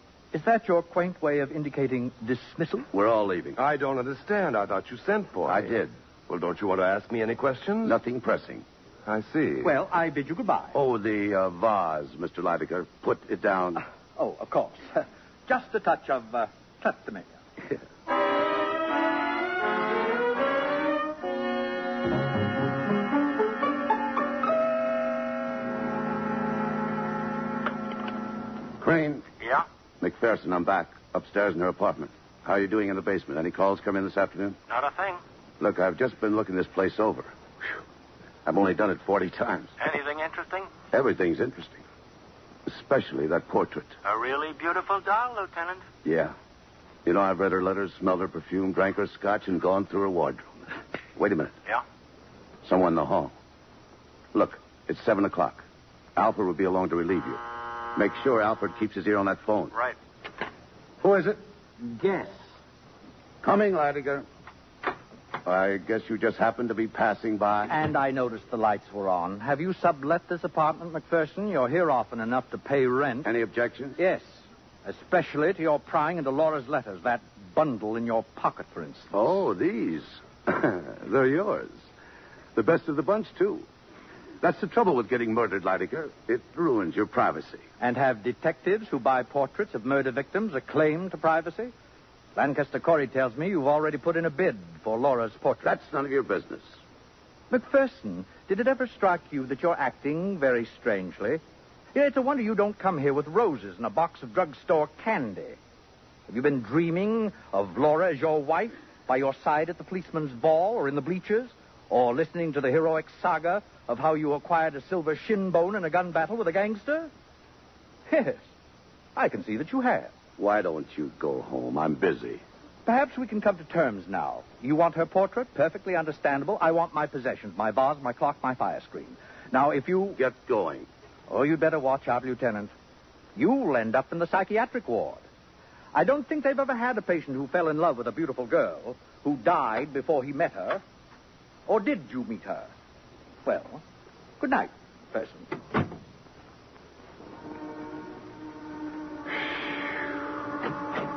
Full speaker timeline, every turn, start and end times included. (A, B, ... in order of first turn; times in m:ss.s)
0:00.3-0:02.9 A
0:02.9-0:03.6 B
0:03.6-0:08.0 C
0:05.4-0:05.9 B
0:07.8-0:08.6 B
0:09.0-0:09.7 C
0:09.6-0:10.8 A
0:10.7-0:13.8 B
0:14.2-0:17.3 A
0:28.8-0:29.3 B
0:30.0-0:34.6 B
0:34.7-0:35.2 D
0:35.6-0:37.3 B
0:38.4-0:39.7 B
0:39.8-0:40.7 D
0:40.9-0:41.8 B
0:42.6-0:43.9 B
0:44.0-0:45.8 D
0:46.0-0:46.3 B
0:47.0-0:50.5 B
0:51.2-0:51.6 B
0:52.6-0:53.3 B
0:54.3-0:55.6 B
0:56.2-0:57.4 B
0:57.9-0:59.7 B
1:01.0-1:01.4 B
1:01.8-1:02.4 A
1:03.4-1:04.2 B
1:05.4-1:07.7 B
1:07.7-1:13.3 A
1:13.2-1:14.0 B
1:14.0-1:19.3 A
1:19.1-1:21.8 B
1:22.5-1:23.6 B
1:24.4-1:27.6 B
1:27.8-1:31.7 A
1:32.3-1:35.7 A
1:35.6-1:36.8 B
1:37.5-1:41.4 A
1:41.9-1:45.6 A
1:46.3-1:57.1 A
1:58.1-1:58.5 A
1:59.2-2:00.1 A
2:00.4-2:02.4 B
2:02.8-2:10.2 A
2:10.2-2:10.9 B
2:11.3-2:12.7 A
2:13.4-2:15.2 A
2:15.9-2:20.8 A
2:21.7-2:22.7 A
2:23.4-2:23.8 A
2:24.4-2:25.6 A